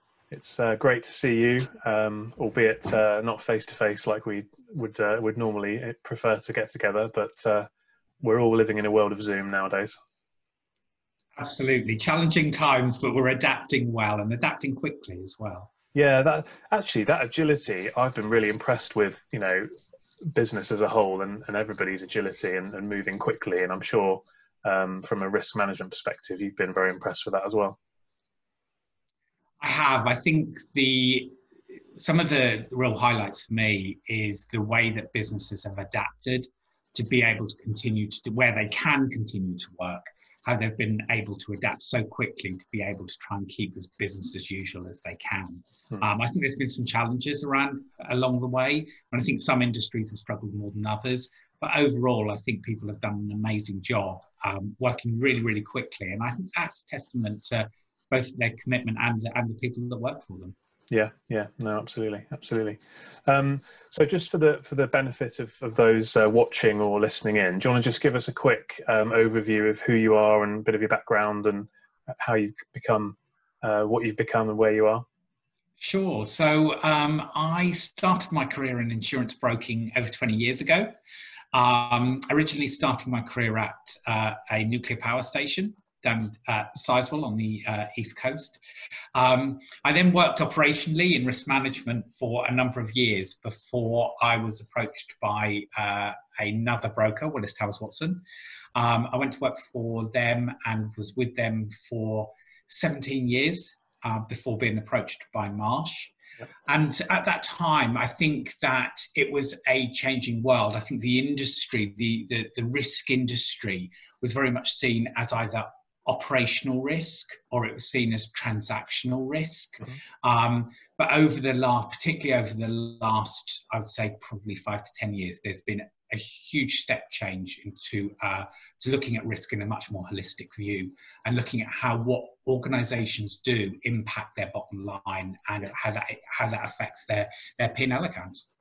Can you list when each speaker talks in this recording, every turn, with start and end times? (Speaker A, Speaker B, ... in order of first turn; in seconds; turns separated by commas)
Speaker A: 0.3-7.7, Speaker A: 8.2-10.0, Speaker B: 11.4-15.7, Speaker A: 15.9-19.7, Speaker A: 20.2-27.8, Speaker B: 29.6-31.4, Speaker B: 31.9-60.5, Speaker A: 60.9-75.1, Speaker B: 75.8-80.9, Speaker B: 81.5-88.6, Speaker B: 89.1-98.2, Speaker B: 98.8-106.1, Speaker B: 106.7-138.5